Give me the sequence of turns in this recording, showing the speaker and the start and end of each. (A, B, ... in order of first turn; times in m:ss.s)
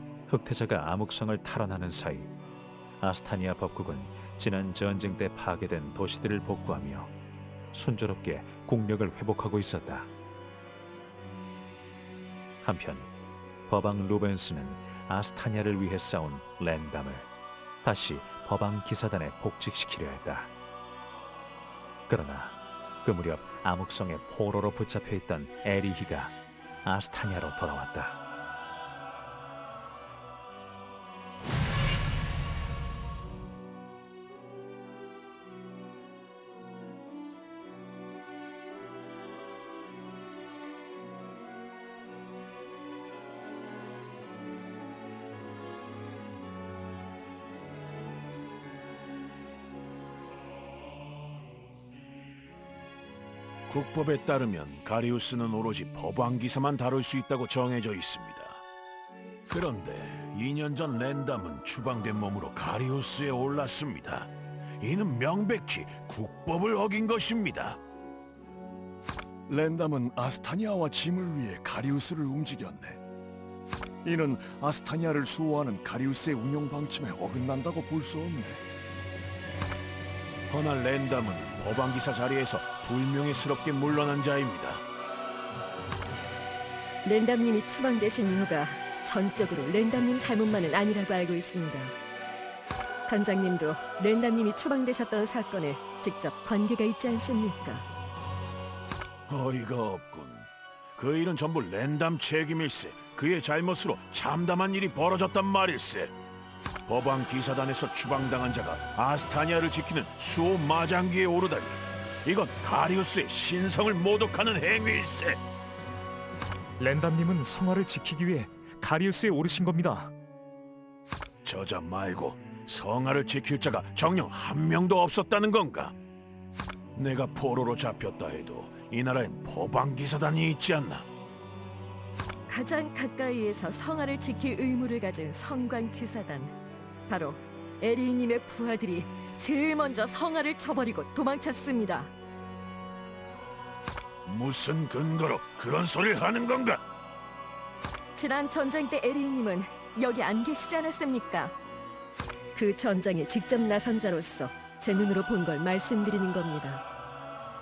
0:00.3-0:02.3 A
0:03.0-0:07.1 A
0:07.7-0:10.1 A
0:12.6-0:13.1 A
0:13.7-0:17.3 A
0:17.8-0:20.5 A
0:22.1-0:26.3 A
0:26.8-0:28.2 A
0:53.7-0:58.6 B
0:59.5-1:07.8 B
1:09.5-1:13.0 C
1:14.0-1:18.6 C
1:20.5-1:24.8 B
1:27.0-1:32.0 D
1:33.1-1:37.8 D
1:39.3-1:46.1 B
1:46.9-1:55.4 B
1:56.8-2:00.1 E
2:01.4-2:05.9 B
2:07.0-2:11.0 B
2:12.5-2:16.5 D
2:17.1-2:22.1 D
2:24.2-2:26.8 B
2:28.1-2:31.5 D
2:32.5-2:36.8 D